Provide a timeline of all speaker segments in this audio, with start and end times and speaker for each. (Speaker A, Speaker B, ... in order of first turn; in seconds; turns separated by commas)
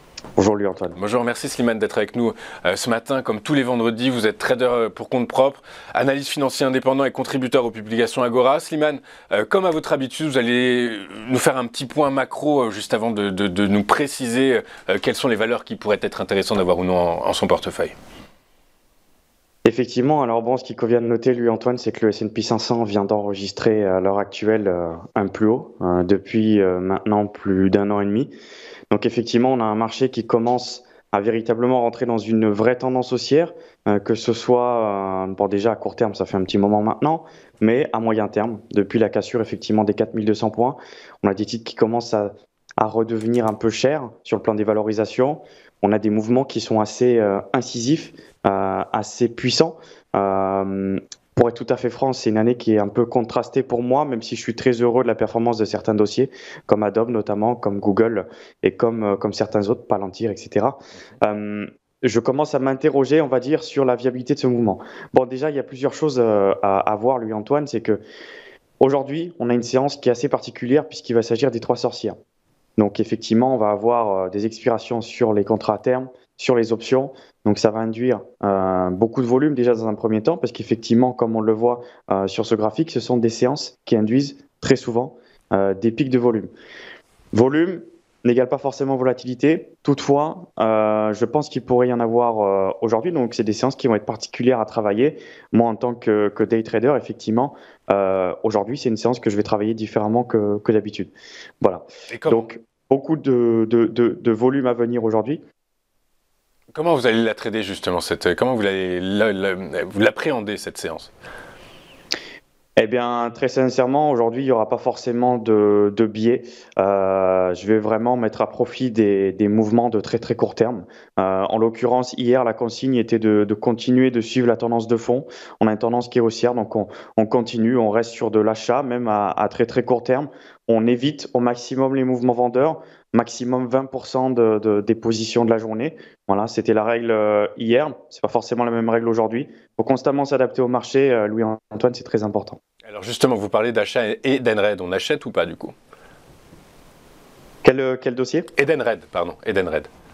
Speaker A: 0.3-1.0, Speaker B: 0.9-17.9, Speaker A: 19.6-28.3, Speaker A: 28.9-68.0, Speaker A: 68.8-72.2, Speaker A: 72.8-86.5, Speaker A: 87.3-105.4, Speaker B: 102.1-102.5, Speaker B: 106.7-111.1, Speaker A: 112.8-142.6, Speaker B: 142.9-145.7, Speaker A: 147.6-148.5, Speaker B: 148.6-149.9